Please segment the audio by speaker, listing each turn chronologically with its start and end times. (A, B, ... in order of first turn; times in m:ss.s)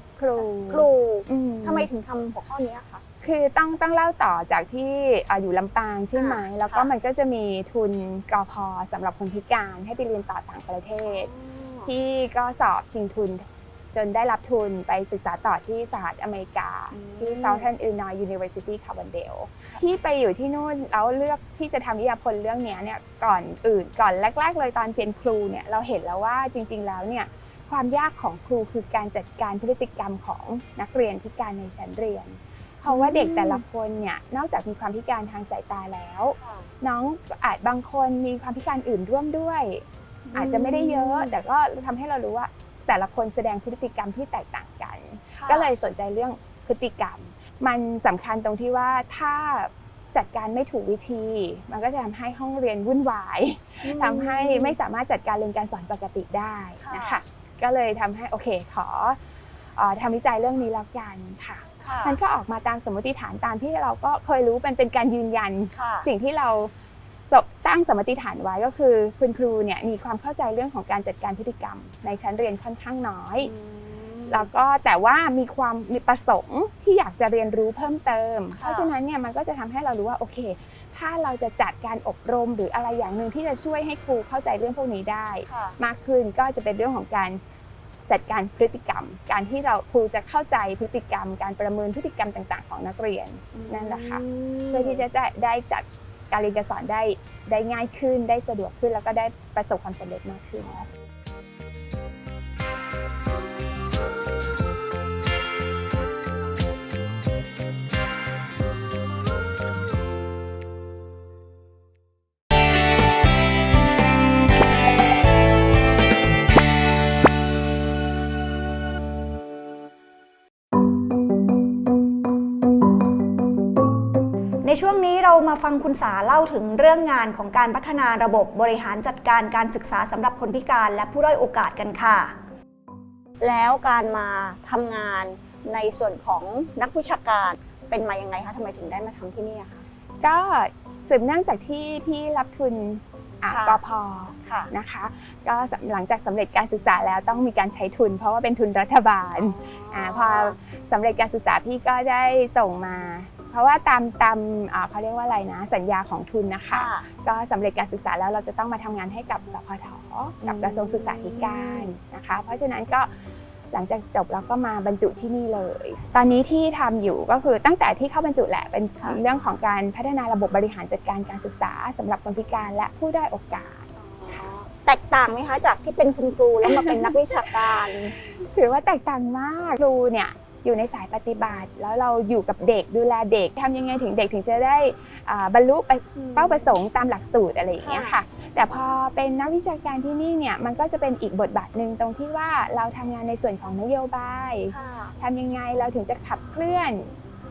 0:00.2-0:01.9 A
0:00.4-0:03.0 B
0:03.2-0:11.3 A
0:06.1-0:06.9 B
0:11.0-0:11.9 B
0:11.8-0:59.2 A
0:16.9-0:17.7 B
0:32.9-0:33.6 B
0:36.4-0:36.7 B
0:40.3-0:41.4 B
0:45.3-0:45.7 B
0:53.8-0:54.8 B
0:56.8-0:57.2 B
0:59.8-1:06.7 A
1:01.8-1:02.2 B
1:05.7-1:06.1 B
1:07.3-1:13.5 A
1:13.4-1:14.5 B
1:14.3-1:27.4 A
1:18.5-1:18.9 B
1:25.5-1:25.8 B
1:28.1-1:40.9 A
1:33.5-1:35.0 B
2:04.6-2:12.3 B
2:13.4-2:19.8 B
2:20.2-2:43.1 A
2:23.5-2:23.8 B
2:24.4-2:24.7 B
2:29.3-2:30.6 B
2:36.7-2:37.1 B
2:40.4-2:41.9 B
2:43.7-2:53.9 A
2:54.0-2:58.1 B
2:56.6-2:57.4 A
2:58.3-3:17.1 A
3:06.1-3:06.7 B
3:07.8-3:08.2 B
3:14.7-3:15.1 B